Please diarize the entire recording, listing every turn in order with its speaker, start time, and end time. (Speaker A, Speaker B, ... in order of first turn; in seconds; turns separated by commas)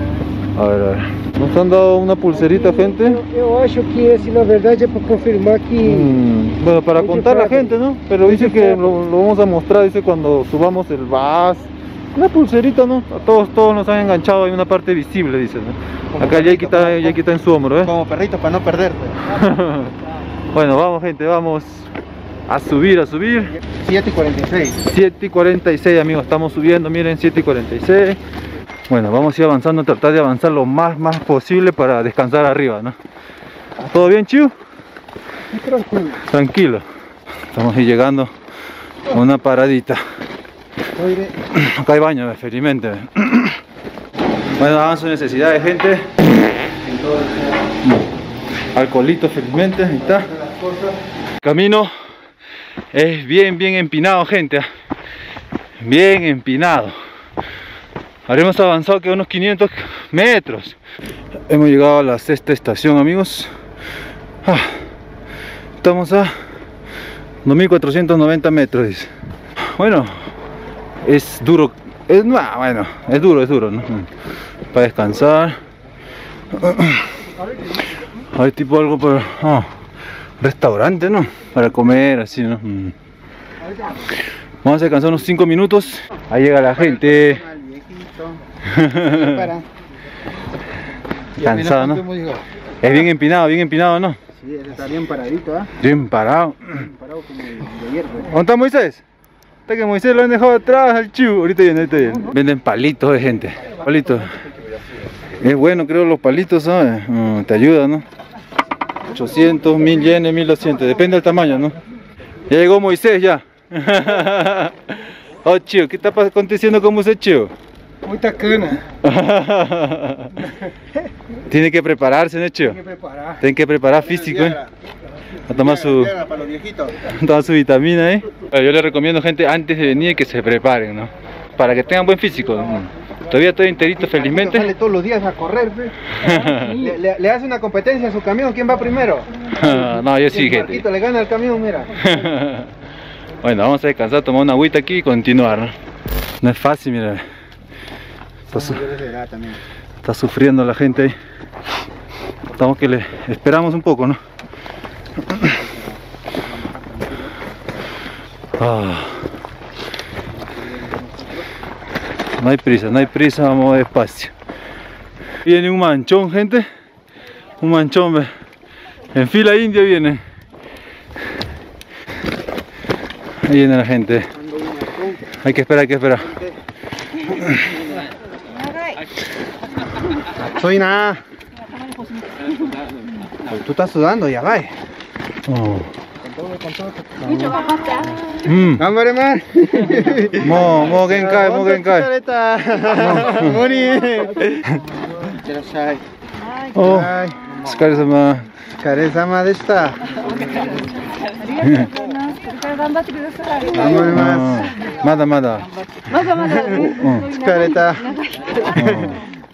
Speaker A: 0.6-3.2, Speaker B: 2.3-6.2, Speaker A: 5.8-17.9, Speaker B: 7.0-8.8, Speaker C: 16.1-17.2, Speaker C: 17.8-19.2, Speaker A: 19.2-19.9, Speaker A: 20.5-21.9, Speaker A: 22.5-23.6, Speaker C: 23.6-24.8, Speaker A: 24.8-28.2, Speaker A: 28.9-33.0, Speaker A: 33.8-34.5, Speaker A: 36.2-36.9, Speaker A: 37.5-38.3, Speaker A: 39.1-40.0, Speaker C: 41.0-41.3, Speaker A: 41.5-43.6, Speaker A: 44.6-46.1, Speaker C: 46.9-47.4, Speaker A: 48.7-50.3, Speaker C: 50.4-50.9, Speaker A: 51.4-51.9, Speaker A: 52.9-54.7, Speaker A: 55.8-57.0, Speaker A: 58.3-60.8, Speaker A: 61.5-63.5, Speaker A: 64.4-64.8, Speaker A: 65.8-66.4, Speaker A: 67.5-69.1, Speaker A: 69.6-70.3, Speaker A: 71.0-74.1, Speaker A: 74.7-75.6, Speaker A: 76.5-77.0, Speaker A: 78.3-79.7, Speaker A: 80.4-83.0, Speaker A: 84.6-87.4, Speaker C: 86.8-88.4, Speaker A: 88.7-89.5, Speaker C: 89.1-89.6, Speaker A: 91.4-92.1, Speaker C: 91.4-92.4, Speaker A: 92.8-94.2, Speaker C: 94.4-95.7, Speaker A: 95.8-96.9, Speaker C: 96.8-98.3, Speaker A: 98.2-99.0, Speaker A: 99.7-104.4, Speaker A: 105.4-108.0, Speaker A: 109.1-111.8, Speaker A: 112.5-117.5, Speaker B: 118.0-118.8, Speaker A: 119.0-120.4, Speaker A: 121.5-122.8, Speaker B: 122.8-123.4, Speaker A: 123.4-124.6, Speaker C: 124.1-124.7, Speaker A: 125.5-126.2, Speaker C: 125.5-127.0, Speaker A: 127.0-134.7, Speaker C: 134.0-135.9, Speaker A: 136.2-136.8, Speaker B: 136.3-136.9, Speaker C: 136.7-139.3, Speaker A: 139.6-140.9, Speaker C: 140.3-142.0, Speaker A: 142.0-142.7, Speaker A: 143.4-145.8, Speaker A: 146.4-147.2, Speaker C: 148.5-149.6, Speaker A: 148.5-148.8, Speaker A: 150.0-151.2, Speaker A: 152.5-154.2, Speaker C: 155.5-155.9, Speaker C: 156.5-157.3, Speaker A: 158.6-159.3, Speaker A: 162.4-164.3, Speaker A: 165.4-166.7, Speaker A: 167.6-168.3, Speaker A: 169.1-170.2, Speaker A: 173.4-174.3, Speaker C: 174.7-175.2, Speaker A: 175.3-176.3, Speaker A: 177.3-177.6, Speaker C: 180.3-181.2, Speaker C: 183.4-184.8, Speaker A: 185.5-185.9, Speaker C: 186.3-187.6, Speaker D: 187.5-188.3, Speaker A: 188.4-188.9, Speaker C: 188.8-194.6, Speaker A: 190.4-192.1, Speaker A: 193.0-193.6, Speaker C: 195.3-196.0, Speaker A: 196.7-198.5, Speaker C: 196.8-197.7, Speaker C: 198.8-200.2, Speaker D: 200.4-204.2, Speaker C: 203.7-204.7, Speaker A: 203.8-205.7, Speaker D: 206.1-208.6, Speaker A: 206.8-207.3, Speaker C: 207.3-208.1, Speaker A: 208.7-209.2